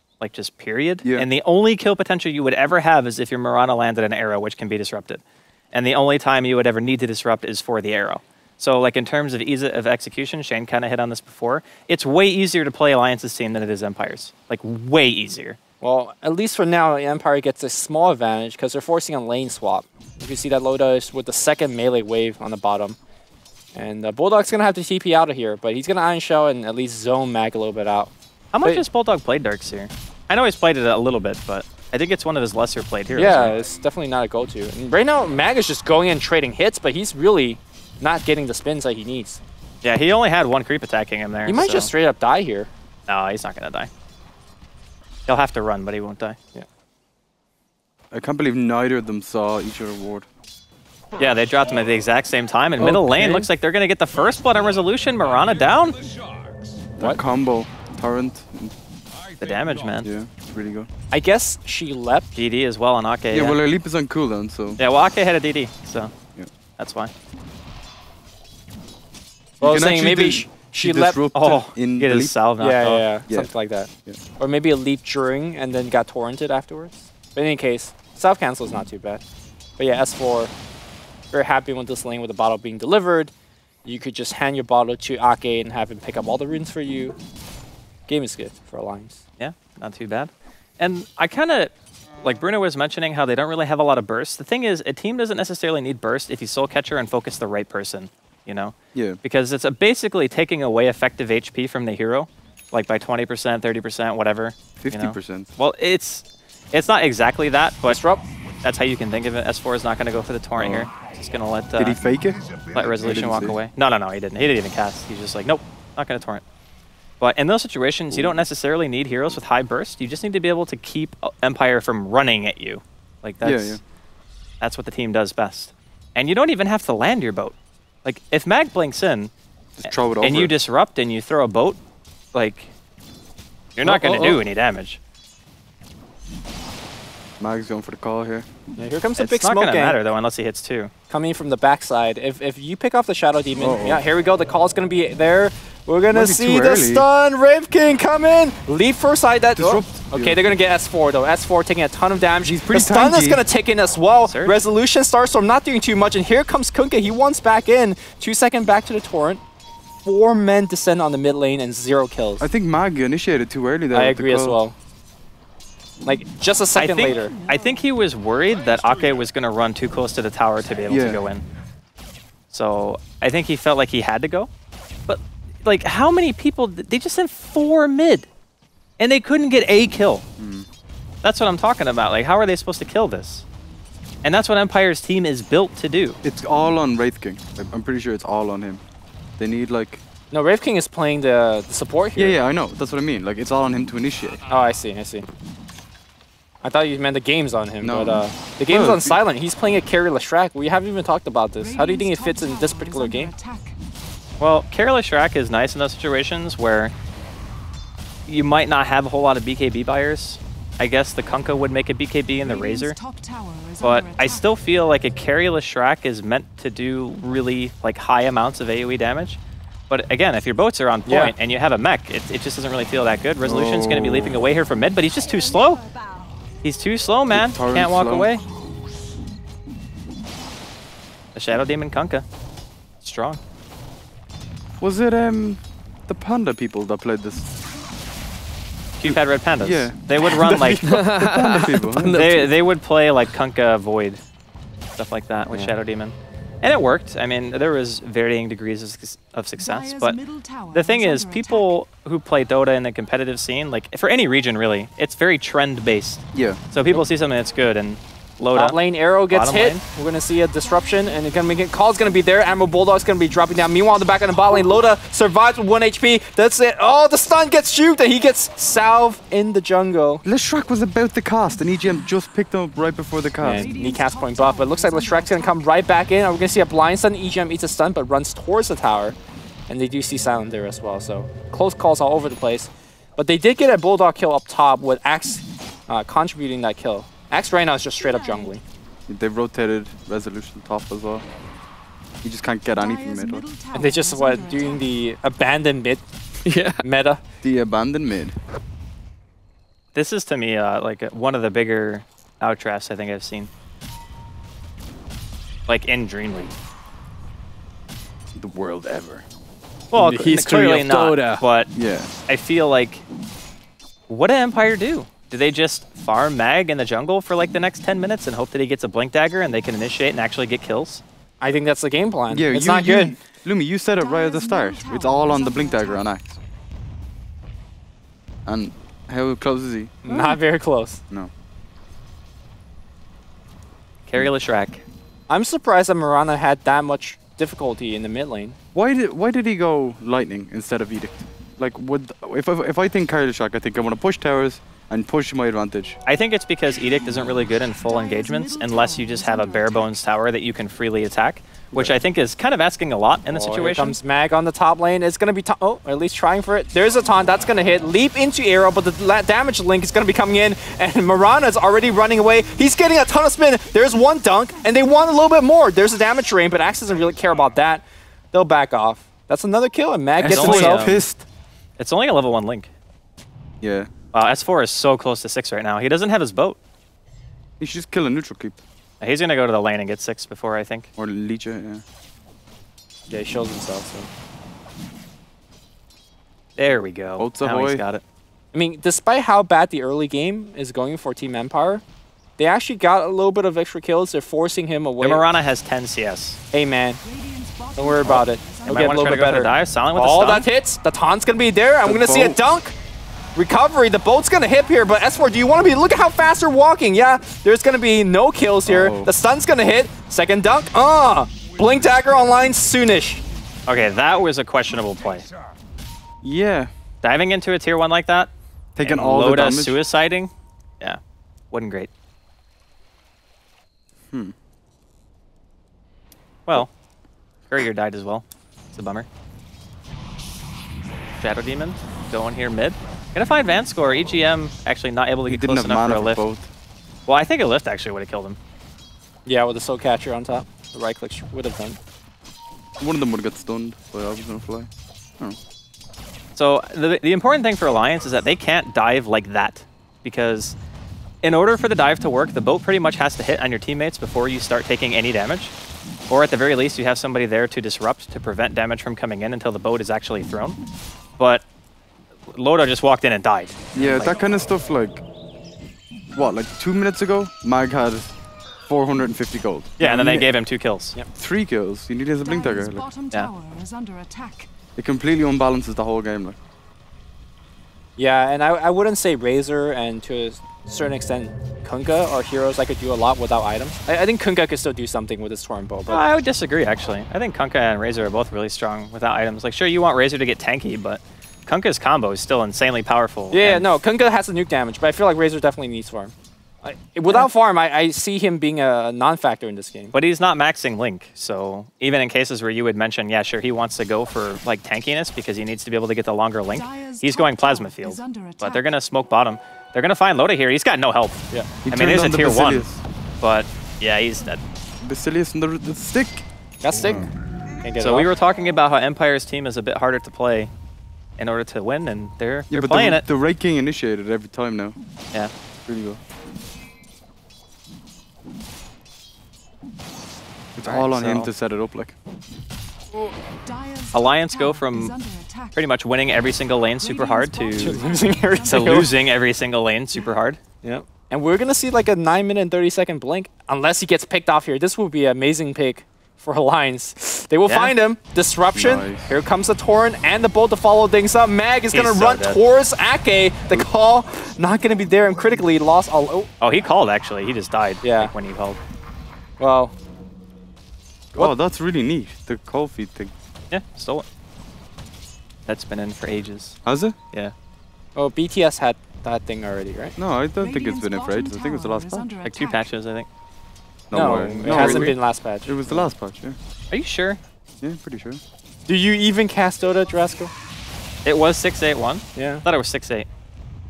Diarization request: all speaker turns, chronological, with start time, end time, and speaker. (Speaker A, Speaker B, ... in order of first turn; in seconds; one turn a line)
Speaker A: 0.2-15.6
Speaker B: 1.0-1.3
Speaker C: 15.8-23.0
Speaker C: 23.8-28.1
Speaker A: 28.5-33.5
Speaker C: 33.1-39.4
Speaker A: 39.8-41.9
Speaker C: 41.5-42.7
Speaker A: 43.1-43.9
Speaker A: 45.3-46.4
Speaker B: 48.1-50.3
Speaker A: 51.2-56.0
Speaker C: 52.8-53.5
Speaker B: 57.0-58.8
Speaker A: 59.4-60.1
Speaker B: 60.0-60.9
Speaker C: 61.1-62.3
Speaker A: 62.4-63.6
Speaker B: 63.3-64.8
Speaker A: 64.8-66.1
Speaker A: 66.8-67.1
Speaker C: 69.6-71.2
Speaker B: 69.6-72.4
Speaker A: 71.3-73.1
Speaker C: 72.6-79.2
Speaker C: 79.8-80.5
Speaker C: 81.3-83.3
Speaker C: 83.8-87.2
Speaker C: 88.1-89.2
Speaker A: 89.4-108.0
Speaker B: 98.9-99.2
Speaker B: 104.8-105.5
Speaker C: 107.9-108.2
Speaker A: 108.6-112.0
Speaker B: 110.6-110.9
Speaker B: 111.8-113.6
Speaker A: 112.7-116.4
Speaker A: 117.2-123.8
Speaker B: 118.1-118.4
Speaker B: 123.4-123.8
Speaker A: 124.6-129.3
Speaker B: 129.8-130.5
Speaker A: 129.8-131.8
Speaker A: 132.3-132.7
Speaker A: 133.8-135.0
Speaker B: 133.8-134.4
Speaker B: 137.4-138.5
Speaker C: 138.8-140.0
Speaker A: 139.2-140.9
Speaker C: 141.1-159.4
Speaker B: 143.6-144.0
Speaker B: 146.1-147.1
Speaker B: 149.6-150.5
Speaker B: 152.4-153.4
Speaker A: 154.2-154.6
Speaker C: 160.0-162.5
Speaker B: 162.4-164.6
Speaker C: 163.9-164.8
Speaker C: 166.0-167.3
Speaker A: 166.8-171.4
Speaker D: 167.1-167.8
Speaker B: 170.9-171.2
Speaker A: 172.5-174.5
Speaker A: 175.1-178.3
Speaker A: 179.0-180.3
Speaker B: 180.4-180.7
Speaker A: 181.2-183.4
Speaker A: 184.2-186.2
Speaker B: 186.2-188.8
Speaker B: 189.4-190.0
Speaker C: 190.3-192.4
Speaker B: 192.2-194.4
Speaker C: 194.5-195.3
Speaker C: 196.6-203.3
Speaker B: 197.8-199.2
Speaker D: 201.6-203.8
Speaker A: 204.4-206.9
Speaker A: 208.3-213.0
Speaker D: 212.4-214.6
Speaker A: 213.8-225.8
Speaker C: 221.1-221.3
Speaker B: 223.4-224.4
Speaker A: 226.6-228.4
Speaker B: 227.3-228.3
Speaker A: 231.3-232.2
Speaker A: 233.0-233.4
Speaker B: 234.8-237.5
Speaker A: 239.0-241.0
Speaker B: 239.0-242.5
Speaker E: 240.8-242.5
Speaker A: 242.0-244.2
Speaker A: 245.0-250.2
Speaker D: 249.6-251.8
Speaker A: 250.7-259.8
Speaker B: 256.3-256.6
Speaker C: 258.5-270.2
Speaker D: 260.6-262.6
Speaker D: 264.4-264.8
Speaker B: 270.2-273.7
Speaker C: 273.4-279.2
Speaker D: 273.4-275.8
Speaker C: 279.7-288.6
Speaker D: 288.1-288.5
Speaker B: 289.1-291.2
Speaker B: 292.2-293.5
Speaker D: 292.7-295.1
Speaker C: 293.7-296.0
Speaker E: 296.4-296.8
Speaker C: 296.8-297.2
Speaker B: 297.4-298.4
Speaker A: 299.9-303.5
Speaker A: 305.7-306.5
Speaker B: 308.4-309.2
Speaker A: 309.9-311.7
Speaker B: 309.9-310.3
Speaker E: 310.0-311.4
Speaker B: 311.7-312.1
Speaker A: 312.3-313.1
Speaker A: 314.1-321.0
Speaker C: 321.4-323.2
Speaker B: 322.3-326.4
Speaker D: 324.0-326.1
Speaker B: 328.4-330.1
Speaker C: 330.0-331.0
Speaker A: 334.1-334.8
Speaker C: 335.3-338.6
Speaker B: 338.7-346.0
Speaker A: 346.1-354.0
Speaker D: 347.2-349.9
Speaker C: 353.3-371.0
Speaker B: 370.2-371.3
Speaker A: 370.2-371.0
Speaker A: 371.8-372.7
Speaker B: 373.6-373.9
Speaker A: 374.1-376.6
Speaker B: 377.6-378.6
Speaker A: 379.0-380.9
Speaker B: 381.0-381.8
Speaker C: 383.1-384.1
Speaker A: 386.6-388.0
Speaker B: 387.2-387.8
Speaker C: 388.5-391.8
Speaker C: 392.4-395.2
Speaker A: 395.0-396.4
Speaker C: 396.5-397.0
Speaker D: 397.0-399.3
Speaker C: 397.8-402.8
Speaker A: 398.7-400.5
Speaker B: 401.8-402.4
Speaker C: 403.4-413.2
Speaker B: 408.6-409.1
Speaker A: 413.7-415.3
Speaker B: 416.2-416.7
Speaker A: 417.0-421.0
Speaker B: 418.8-419.8
Speaker A: 421.5-421.9
Speaker A: 427.5-429.1
Speaker A: 431.2-436.2
Speaker B: 435.3-436.5
Speaker A: 437.1-438.4
Speaker C: 439.2-441.8
Speaker B: 442.8-445.4
Speaker A: 446.4-450.6
Speaker A: 451.2-455.5
Speaker A: 456.1-460.6
Speaker A: 461.2-461.4
Speaker A: 462.3-464.2
Speaker B: 463.8-465.0
Speaker B: 466.1-468.1
Speaker B: 468.7-470.3
Speaker A: 469.8-471.0
Speaker B: 471.1-472.9
Speaker D: 472.2-474.5
Speaker B: 474.8-476.4
Speaker C: 478.0-486.0
Speaker A: 485.9-493.8
Speaker C: 493.3-499.9
Speaker A: 499.9-512.7
Speaker D: 506.5-508.7
Speaker B: 511.6-512.8
Speaker A: 513.2-514.4
Speaker B: 514.8-516.3
Speaker C: 516.6-517.1
Speaker B: 516.8-517.1
Speaker C: 517.6-518.1
Speaker A: 517.8-520.5
Speaker A: 521.2-523.0
Speaker B: 522.5-524.8
Speaker B: 525.7-526.0
Speaker B: 530.6-532.0
Speaker A: 530.6-531.3
Speaker D: 533.0-535.7
Speaker A: 533.9-535.0
Speaker A: 535.5-537.8
Speaker D: 536.7-539.1
Speaker C: 537.6-538.9
Speaker A: 538.4-540.4
Speaker C: 540.6-556.3
Speaker A: 547.5-547.8
Speaker B: 548.5-549.1
Speaker A: 551.7-552.4
Speaker A: 556.4-558.6
Speaker C: 557.8-558.1
Speaker C: 559.4-559.7
Speaker B: 561.1-563.1
Speaker A: 563.5-564.1
Speaker A: 565.5-566.6
Speaker B: 566.6-567.0
Speaker C: 568.0-570.0
Speaker B: 570.0-572.1
Speaker D: 570.4-572.7
Speaker A: 572.2-573.1
Speaker B: 573.9-576.4
Speaker C: 573.9-575.9
Speaker A: 574.1-575.0
Speaker A: 576.7-577.2
Speaker B: 577.6-578.2
Speaker C: 578.7-580.3
Speaker A: 581.0-583.1
Speaker C: 582.1-582.5